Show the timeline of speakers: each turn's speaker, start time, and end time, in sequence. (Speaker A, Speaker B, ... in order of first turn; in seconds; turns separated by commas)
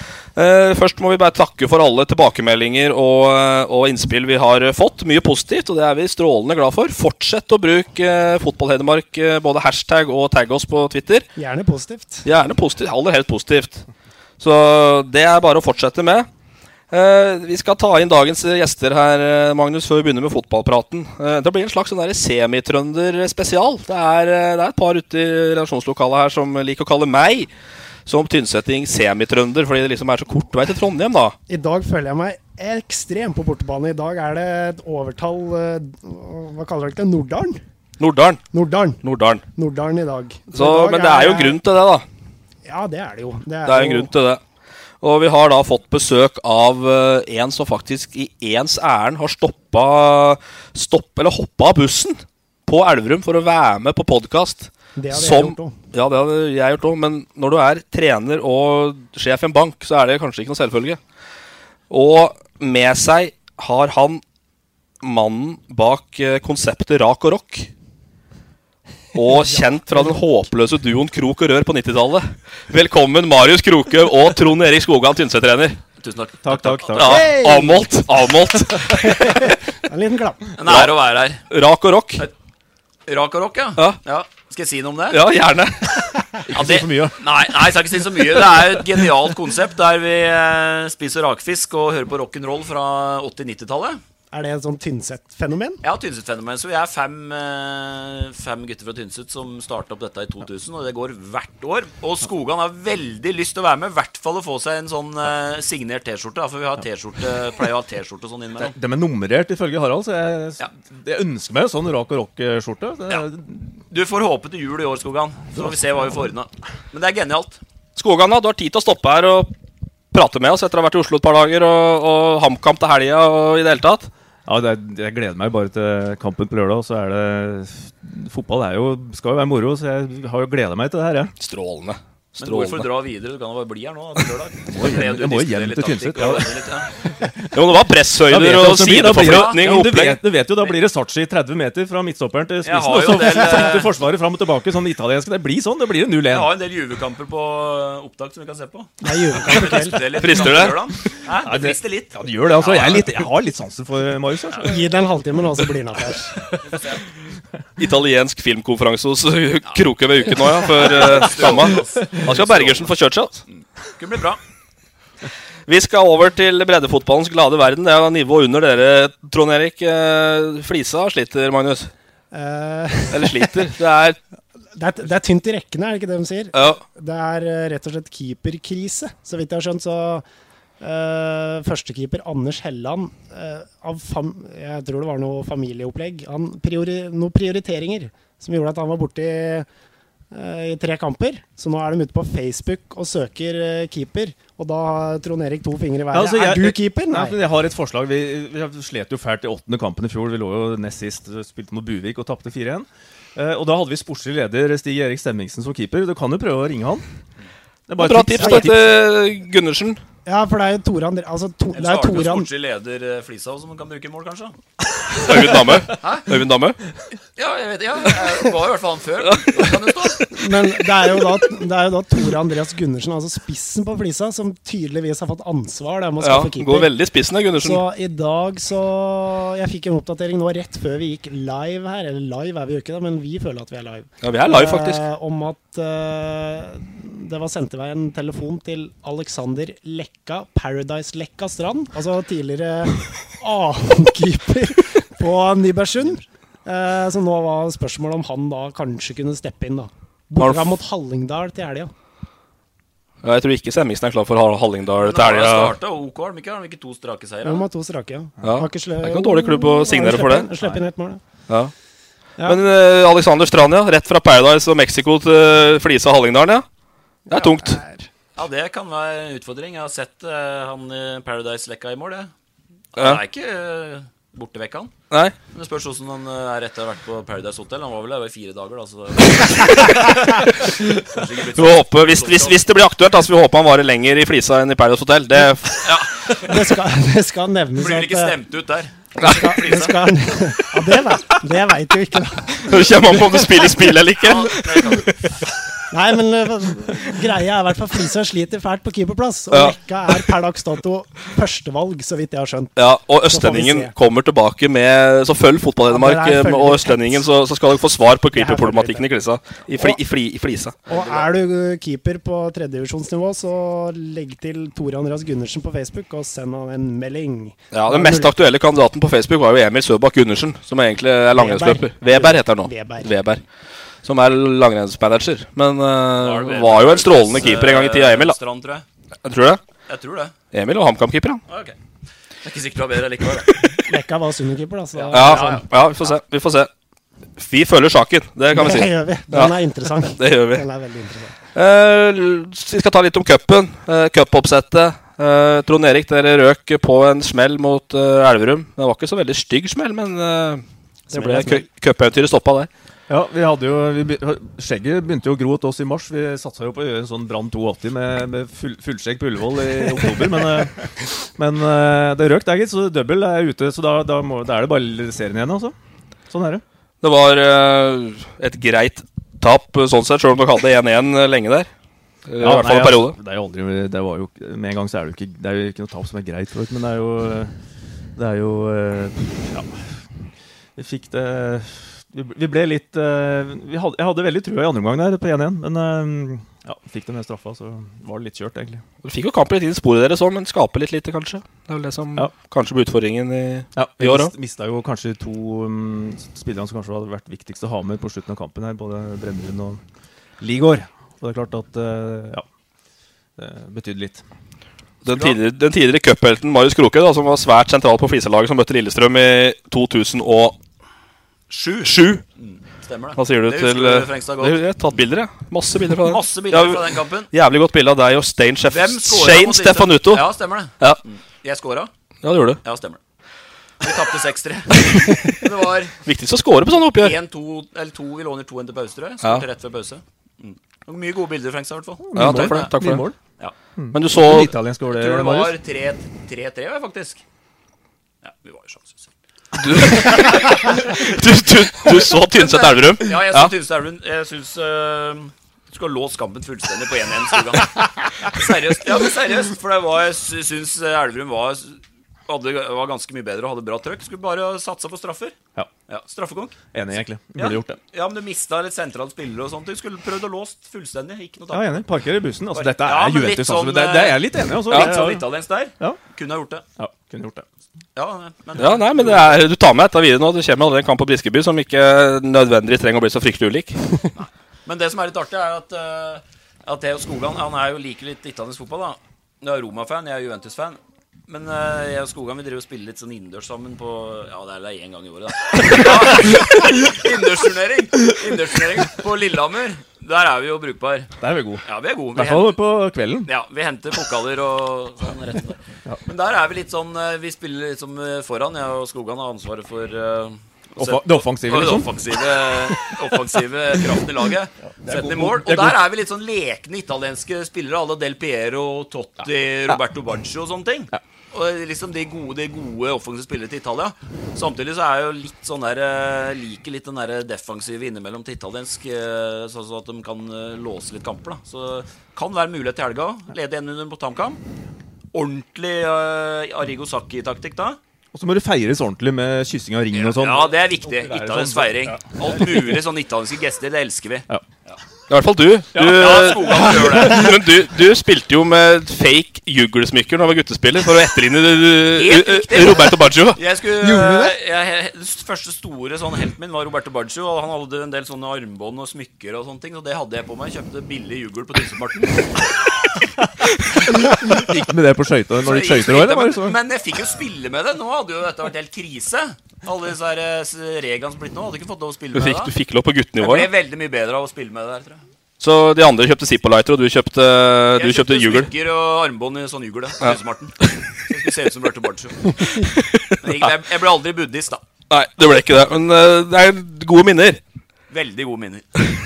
Speaker A: 0.4-11.3, Speaker B: 11.4-12.3, Speaker A: 12.2-13.8, Speaker A: 14.4-16.3, Speaker A: 16.9-27.5, Speaker A: 28.1-31.4, Speaker B: 31.5-37.6, Speaker A: 38.0-38.4, Speaker B: 38.5-39.0, Speaker A: 39.0-39.4, Speaker B: 39.6-41.6, Speaker A: 40.5-42.0, Speaker B: 42.6-44.1, Speaker A: 43.6-44.4, Speaker A: 45.0-61.0, Speaker B: 55.0-55.8, Speaker A: 61.9-64.2, Speaker A: 65.0-67.7, Speaker A: 69.1-75.8, Speaker B: 69.5-70.2, Speaker C: 76.0-77.1, Speaker D: 76.4-77.3, Speaker A: 77.0-79.5, Speaker B: 77.0-77.9, Speaker B: 79.0-80.4, Speaker C: 80.6-81.4, Speaker A: 80.7-80.9, Speaker A: 81.5-82.3, Speaker C: 83.1-85.2, Speaker A: 85.1-86.3, Speaker D: 86.5-87.2, Speaker C: 86.5-94.0, Speaker B: 94.3-95.8, Speaker C: 95.8-108.7, Speaker D: 108.6-113.6, Speaker C: 113.9-117.6, Speaker D: 115.5-116.1, Speaker A: 118.0-119.5, Speaker A: 120.1-124.1, Speaker D: 124.5-131.3, Speaker A: 131.4-132.9, Speaker C: 132.4-136.9, Speaker D: 134.7-136.5, Speaker D: 137.0-137.5, Speaker A: 137.5-140.2, Speaker D: 138.3-146.5, Speaker C: 139.1-139.7, Speaker C: 142.6-143.9, Speaker C: 146.3-153.3, Speaker B: 149.0-150.1, Speaker A: 150.2-150.8, Speaker D: 151.4-154.8, Speaker B: 154.6-156.3, Speaker C: 156.6-157.0, Speaker A: 157.8-163.4, Speaker C: 159.7-162.9, Speaker C: 164.0-164.4, Speaker A: 165.7-171.9, Speaker B: 172.3-173.6, Speaker A: 173.1-174.2, Speaker B: 174.8-180.2, Speaker A: 176.5-176.8, Speaker B: 180.8-189.7, Speaker B: 190.3-197.4, Speaker D: 196.1-207.0, Speaker D: 207.9-209.0, Speaker A: 208.0-210.0, Speaker B: 210.3-212.5, Speaker C: 211.7-214.6, Speaker A: 215.1-216.8, Speaker C: 216.0-216.3, Speaker C: 217.4-220.3, Speaker A: 219.2-219.8, Speaker B: 220.3-226.9, Speaker A: 226.2-227.8, Speaker B: 227.6-251.9, Speaker A: 234.2-235.0, Speaker A: 250.4-250.7, Speaker A: 253.2-255.7, Speaker C: 255.0-257.7, Speaker B: 257.4-261.2, Speaker A: 258.4-260.5, Speaker A: 262.4-266.6, Speaker B: 267.3-268.1, Speaker A: 267.3-267.8, Speaker C: 268.4-272.3, Speaker C: 272.9-274.9, Speaker C: 275.5-282.6, Speaker A: 279.8-280.9, Speaker A: 281.6-285.9, Speaker C: 285.8-286.5, Speaker B: 286.5-288.3, Speaker C: 287.8-290.0, Speaker A: 289.2-289.5, Speaker B: 289.2-292.7, Speaker A: 292.6-295.1, Speaker C: 294.2-295.1, Speaker B: 295.9-303.9, Speaker A: 302.8-310.8, Speaker B: 305.9-307.2, Speaker B: 308.3-309.0, Speaker C: 310.9-311.3, Speaker B: 310.9-318.3, Speaker A: 317.7-323.4, Speaker B: 321.4-323.1, Speaker A: 324.0-328.4, Speaker C: 326.2-328.9, Speaker A: 329.2-329.6, Speaker C: 329.9-330.3, Speaker A: 330.5-331.4, Speaker C: 331.5-331.8, Speaker C: 332.4-333.8, Speaker B: 333.8-335.7, Speaker C: 335.0-336.1, Speaker A: 335.1-336.7, Speaker A: 337.4-340.6, Speaker B: 338.5-341.3, Speaker A: 341.6-352.7, Speaker B: 351.1-351.7, Speaker D: 353.1-365.8, Speaker D: 366.3-366.6, Speaker A: 367.0-371.7, Speaker A: 372.3-373.2, Speaker D: 372.4-377.5, Speaker D: 378.2-379.7, Speaker D: 380.8-388.8, Speaker A: 389.0-394.3, Speaker D: 393.8-399.8, Speaker D: 400.4-402.4, Speaker D: 403.4-404.2, Speaker A: 405.1-410.6, Speaker C: 405.1-405.4, Speaker C: 411.5-414.6, Speaker A: 411.8-412.2, Speaker A: 413.2-420.2, Speaker C: 416.0-417.3, Speaker C: 418.7-421.9, Speaker A: 422.2-422.6, Speaker C: 422.6-423.0, Speaker C: 423.8-425.9, Speaker A: 425.0-425.4, Speaker A: 426.1-427.2, Speaker C: 426.9-432.7, Speaker D: 432.1-433.1, Speaker A: 432.1-433.1, Speaker D: 433.8-435.6, Speaker A: 433.9-434.5, Speaker C: 434.9-437.2, Speaker C: 438.2-439.1, Speaker A: 439.6-443.5, Speaker C: 439.8-441.1, Speaker C: 441.8-455.4, Speaker C: 455.9-456.7, Speaker D: 456.7-457.8, Speaker C: 457.4-461.8, Speaker D: 461.5-465.2, Speaker C: 462.5-466.6, Speaker A: 464.7-464.9, Speaker D: 466.8-467.4, Speaker C: 467.9-469.4, Speaker A: 468.6-474.0, Speaker C: 474.2-491.1, Speaker D: 491.2-493.3, Speaker C: 491.6-492.6, Speaker C: 493.3-524.4, Speaker D: 500.8-503.0, Speaker D: 504.9-505.8, Speaker C: 525.1-527.8, Speaker D: 528.1-532.8, Speaker C: 529.9-534.8, Speaker A: 535.1-543.4, Speaker D: 535.8-536.5, Speaker C: 535.9-537.3, Speaker C: 542.0-552.5, Speaker D: 553.8-556.6, Speaker C: 555.4-562.5, Speaker A: 562.1-563.5, Speaker C: 563.2-565.0, Speaker A: 565.4-568.5, Speaker C: 567.8-572.6, Speaker A: 572.5-573.3, Speaker C: 573.2-574.6, Speaker A: 574.9-577.4, Speaker C: 577.9-578.8